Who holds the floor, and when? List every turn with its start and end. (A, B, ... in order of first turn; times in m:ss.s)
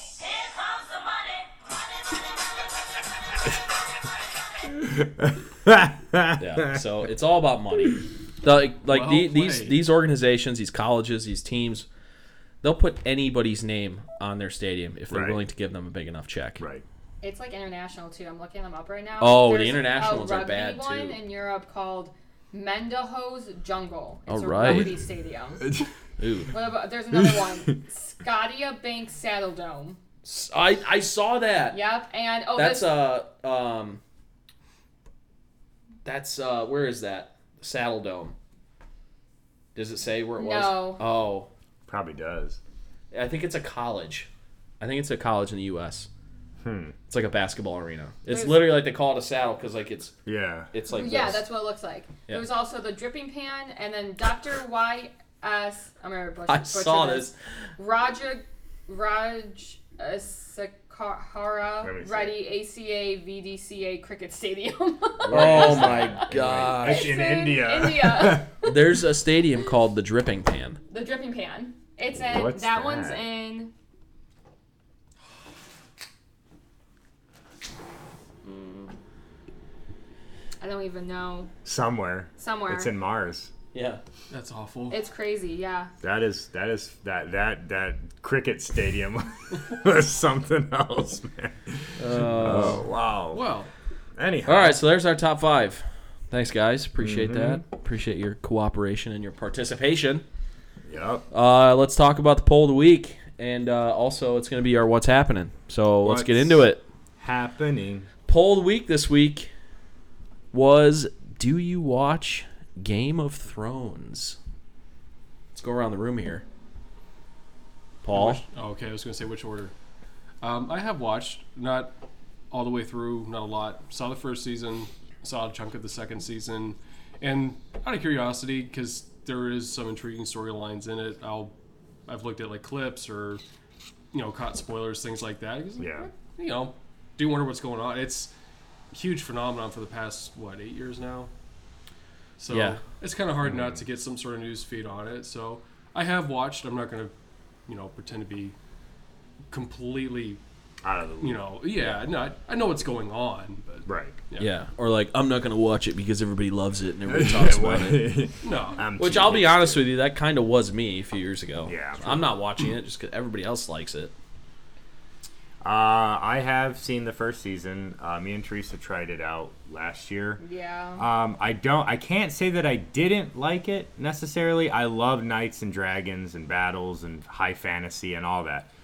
0:04.7-0:06.8 A
0:06.4-0:11.8 B
0:08.9-0:09.8 C
0:12.6-0:16.6 B
0:15.1-0:15.4 A
0:16.6-0:16.8 A
0:17.2-0:25.8 D
0:19.2-0:21.2 B
0:24.3-0:24.9 B
0:24.6-0:24.9 A
0:26.2-0:26.5 B
0:26.5-0:30.0 D
0:30.2-0:31.8 B
0:31.7-0:32.9 D
0:32.5-0:34.0 B
0:36.0-0:38.3 B
0:39.7-0:41.5 B
0:40.4-0:41.0 D
0:41.9-0:42.6 A
0:43.1-0:44.3 B
0:44.8-0:46.1 B
0:46.6-0:46.9 A
0:47.1-0:50.1 B
0:48.3-0:48.6 D
0:50.2-0:50.7 A
0:50.7-0:51.4 B
0:50.9-1:08.7 D
0:56.5-0:57.3 B
1:01.8-1:02.4 A
1:05.2-1:08.5 A
1:05.3-1:07.1 B
1:08.6-1:10.8 B
1:10.9-1:13.7 D
1:12.1-1:13.2 A
1:18.4-1:18.9 D
1:20.6-1:21.5 D
1:21.6-1:23.5 A
1:22.4-1:22.9 D
1:23.7-1:24.0 B
1:24.3-1:25.0 C
1:24.9-1:25.9 D
1:26.0-1:33.4 A
1:32.0-1:32.8 B
1:32.5-1:32.8 C
1:33.3-1:33.7 C
1:34.1-1:34.8 A
1:34.4-1:40.2 B
1:37.0-1:37.6 A
1:40.8-1:41.2 A
1:41.3-1:46.8 B
1:46.0-1:46.6 A
1:47.2-1:48.1 A
1:48.3-1:49.5 B
1:50.5-1:54.4 B
1:55.5-1:56.4 B
1:58.0-1:58.4 B
1:58.1-1:59.7 C
2:00.4-2:02.0 C
2:02.5-2:11.5 C
2:12.0-2:13.4 C
2:14.1-2:18.3 C
2:15.8-2:16.1 A
2:18.9-2:21.3 C
2:22.4-2:27.1 C
2:22.5-2:22.8 B
2:23.4-2:23.8 A
2:27.7-2:28.6 C
2:29.5-2:30.4 C
2:30.8-2:31.4 A
2:31.2-2:34.5 C
2:33.8-2:34.2 A
2:34.4-2:38.0 B
2:37.0-2:39.9 A
2:38.4-2:38.8 C
2:39.0-2:44.1 B
2:41.6-2:42.3 A
2:45.6-2:50.4 A
2:50.4-2:51.0 D
2:51.0-2:58.7 A